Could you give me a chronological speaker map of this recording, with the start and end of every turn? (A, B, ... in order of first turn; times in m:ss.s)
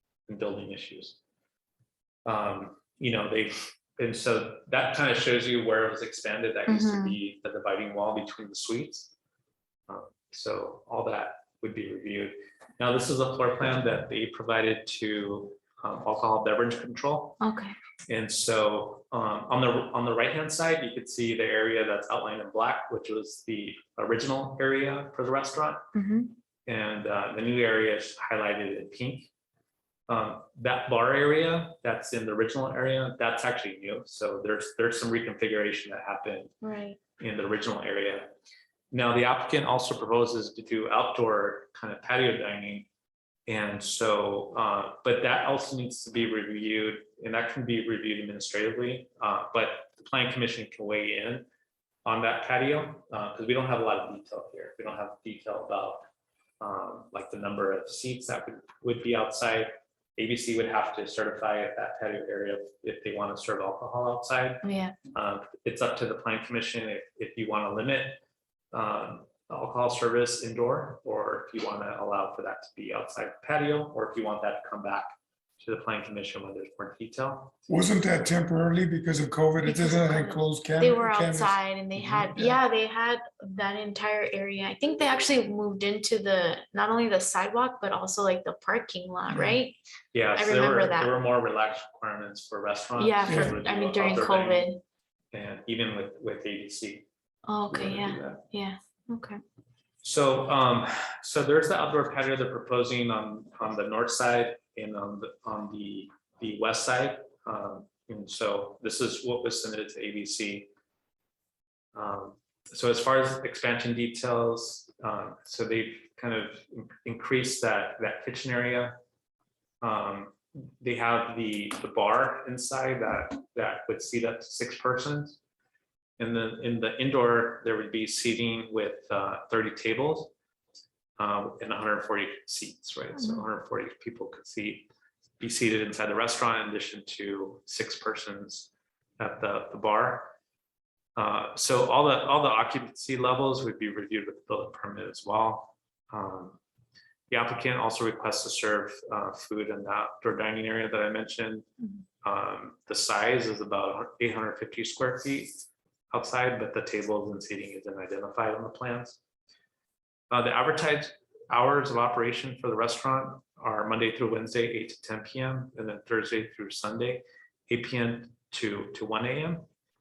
0:00.3-0:01.2 A
0:02.2-0:09.1 A
0:06.7-0:07.2 B
0:09.9-0:17.4 A
0:17.4-0:17.7 B
0:18.1-0:25.8 A
0:25.9-0:26.3 B
0:26.6-0:29.3 A
0:30.1-0:36.5 A
0:36.6-0:37.0 B
0:37.2-0:38.3 A
0:38.9-0:42.9 A
0:43.5-0:51.5 A
0:52.0-0:56.0 A
0:56.6-1:08.2 A
1:04.6-1:05.0 B
1:08.7-1:17.5 A
1:17.7-1:21.6 C
1:19.6-1:29.8 B
1:22.2-1:22.5 C
1:29.3-1:29.6 C
1:30.1-1:34.7 A
1:30.3-1:31.1 B
1:33.0-1:34.8 B
1:33.3-1:33.5 C
1:35.3-1:37.1 A
1:37.5-1:39.4 B
1:37.7-1:38.4 A
1:40.0-1:50.7 A
1:51.9-1:59.0 A
1:59.8-2:05.4 A
2:06.2-2:10.3 A
2:11.2-2:14.9 A
2:13.2-2:13.4 B
2:15.4-2:20.3 A
2:21.2-2:26.6 A
2:27.3-2:31.7 A
2:32.2-2:39.2 A
2:40.3-2:49.6 A